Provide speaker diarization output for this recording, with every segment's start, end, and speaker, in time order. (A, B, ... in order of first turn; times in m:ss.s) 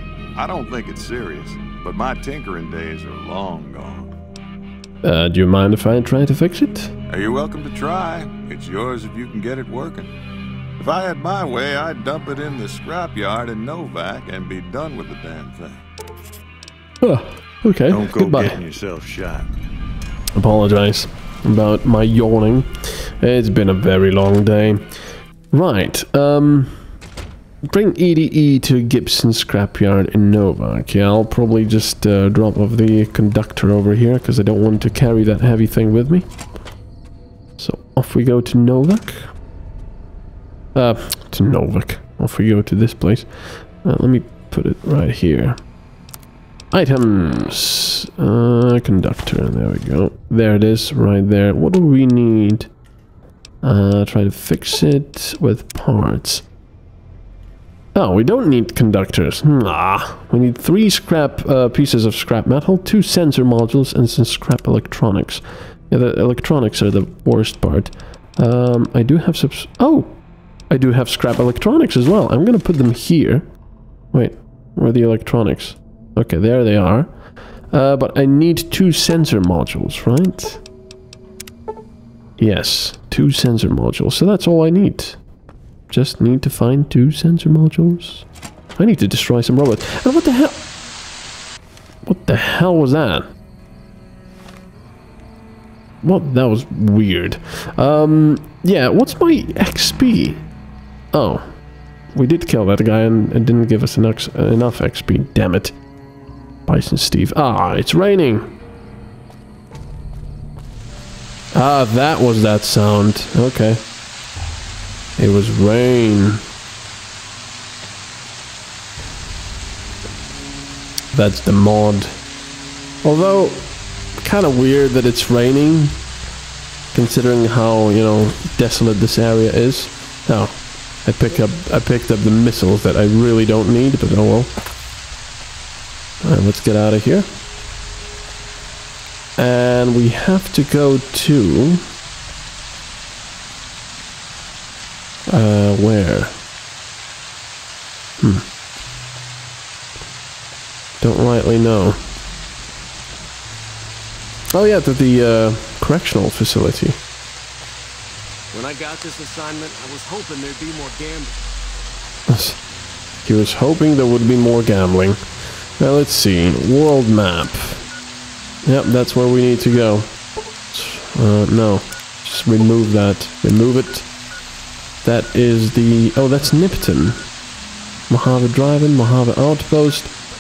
0:00.4-0:04.1 A
0:05.0-0:06.9 B
0:07.1-0:10.1 A
0:10.8-0:15.8 A
0:17.0-0:18.6 B
0:17.9-0:19.5 A
0:20.4-0:24.8 B
0:25.5-0:26.8 B
0:27.7-0:36.3 B
0:37.6-0:39.3 B
0:40.8-0:45.6 B
0:46.7-0:52.7 B
0:53.6-0:56.4 B
0:58.0-1:13.5 B
1:14.1-1:17.1 B
1:17.7-1:20.6 B
1:22.4-1:25.2 B
1:25.9-1:28.3 B
1:28.8-1:30.6 B
1:32.0-1:33.3 B
1:36.0-1:40.4 B
1:41.1-1:41.5 B
1:42.1-1:45.8 B
1:46.7-1:48.5 B
1:51.5-1:53.8 B
1:55.2-1:56.4 B
2:01.1-2:02.2 B
2:03.0-2:06.0 B
2:06.9-2:14.5 B
2:16.2-2:17.3 B
2:19.4-2:21.8 B
2:25.3-2:26.4 B
2:28.2-2:28.5 B
2:31.0-2:32.0 B
2:34.5-2:37.0 B
2:38.5-2:41.4 C
2:42.3-2:42.6 B
2:43.2-2:45.2 B
2:45.8-2:47.8 B
2:48.7-2:50.1 B
2:50.7-2:54.1 B
2:55.0-2:57.2 B
2:58.1-3:00.1 B